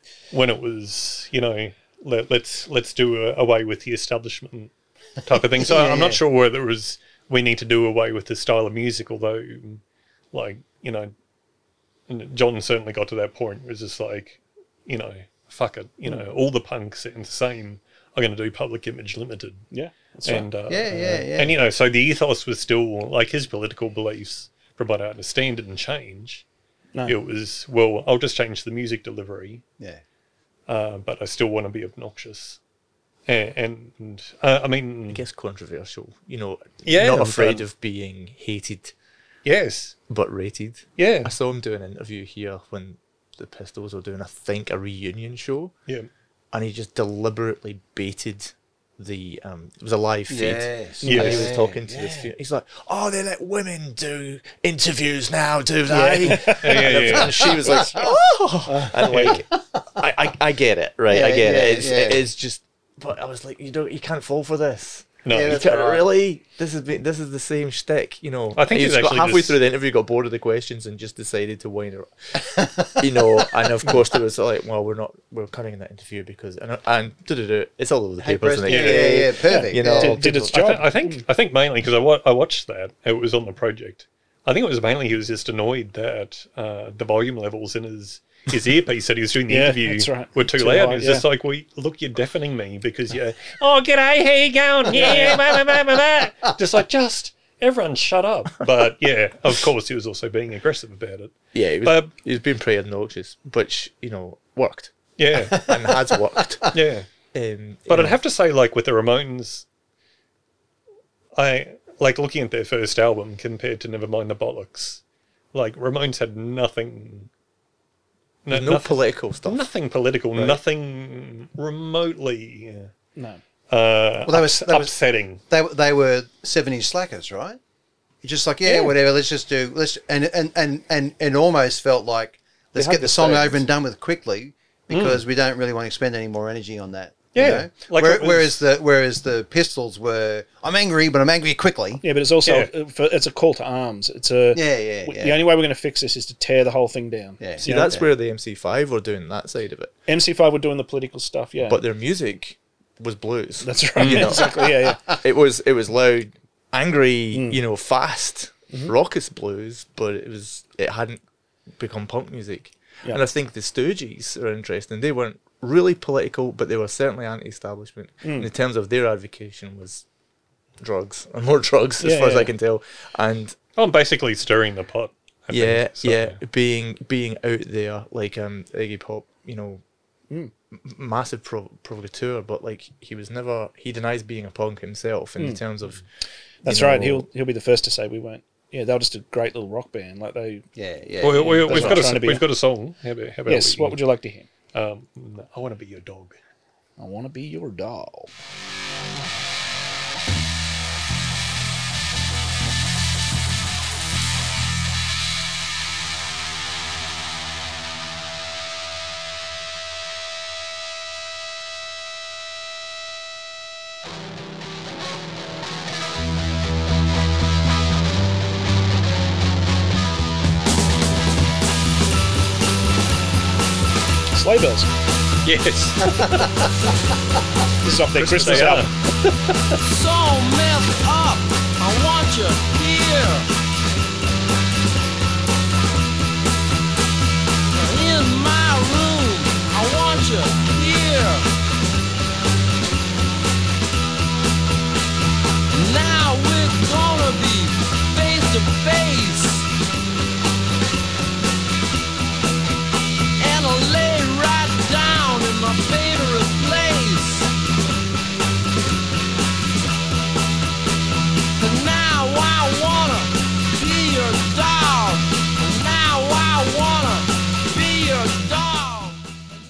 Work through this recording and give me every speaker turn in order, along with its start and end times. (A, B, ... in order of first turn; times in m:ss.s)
0:00.3-0:11.1 A
0:05.6-0:06.2 B
0:12.1-0:19.7 A
0:19.7-0:21.2 C
0:20.2-0:26.5 A
0:20.7-0:21.6 B
0:27.0-0:29.6 A
0:30.7-0:32.6 A
0:33.3-0:35.2 A
0:35.1-0:39.0 D
0:36.8-0:37.6 A
0:39.4-0:40.0 A
0:40.1-0:45.7 D
0:41.0-0:41.3 A
0:46.5-1:12.4 D
0:50.3-0:52.3 B
0:51.0-0:51.3 C
0:51.0-0:51.5 A
0:55.9-0:56.7 C
0:56.6-0:57.3 A
0:57.5-0:58.1 B
0:58.7-0:59.6 B
0:59.1-0:59.4 A
1:01.1-1:02.2 B
1:05.2-1:06.0 A
1:05.3-1:06.0 B
1:08.6-1:09.6 A
1:12.4-1:13.6 B
1:13.0-1:20.8 D
1:18.2-1:20.2 B
1:18.7-1:19.2 A
1:19.5-1:21.2 C
1:20.5-1:42.1 A
1:29.5-1:31.2 C
1:34.9-1:35.4 C
1:41.5-1:46.8 D
1:45.2-1:45.7 A
1:45.4-1:46.7 B
1:46.7-1:47.1 A
1:47.3-1:48.2 D
1:47.9-1:49.7 A
1:51.4-1:55.0 A
1:55.5-1:57.3 A
1:58.4-2:02.9 A
1:58.5-1:59.7 D
2:00.3-2:00.6 D
2:03.7-2:05.4 A
2:04.3-2:04.9 B
2:05.5-2:07.6 B
2:08.2-2:22.0 B
2:08.6-2:09.0 A
2:12.8-2:13.6 D
2:14.9-2:15.2 A
2:17.3-2:18.6 A
2:22.0-2:27.9 C
2:22.4-2:22.7 A
2:24.5-2:25.4 B
2:27.4-2:28.1 B
2:27.6-2:30.0 D
2:30.1-2:31.8 C
2:31.6-2:41.2 D
2:33.6-2:35.0 C
2:34.0-2:34.4 A
2:34.4-2:35.0 B
2:37.3-2:37.6 C
2:41.8-2:50.1 D
2:48.2-2:48.5 C
2:50.8-2:53.6 D
2:52.0-2:52.5 C
2:53.8-2:56.4 A
2:55.5-2:59.8 D
3:00.7-3:06.1 D
3:06.6-3:07.3 D
3:06.6-3:10.7 C
3:10.8-3:12.0 B
3:11.2-3:14.0 A
3:11.4-3:12.5 C
3:13.5-3:14.5 C
3:14.7-3:16.4 A
3:17.0-3:18.3 C
3:44.3-3:44.9 C
3:45.4-3:46.7 A
3:46.1-3:46.7 B
3:47.8-3:48.9 C
3:48.2-3:49.8 A
3:49.9-3:53.4 E
3:57.8-4:01.4 E
4:05.7-4:09.6 E
4:13.4-4:17.5 E
4:21.6-4:29.2 E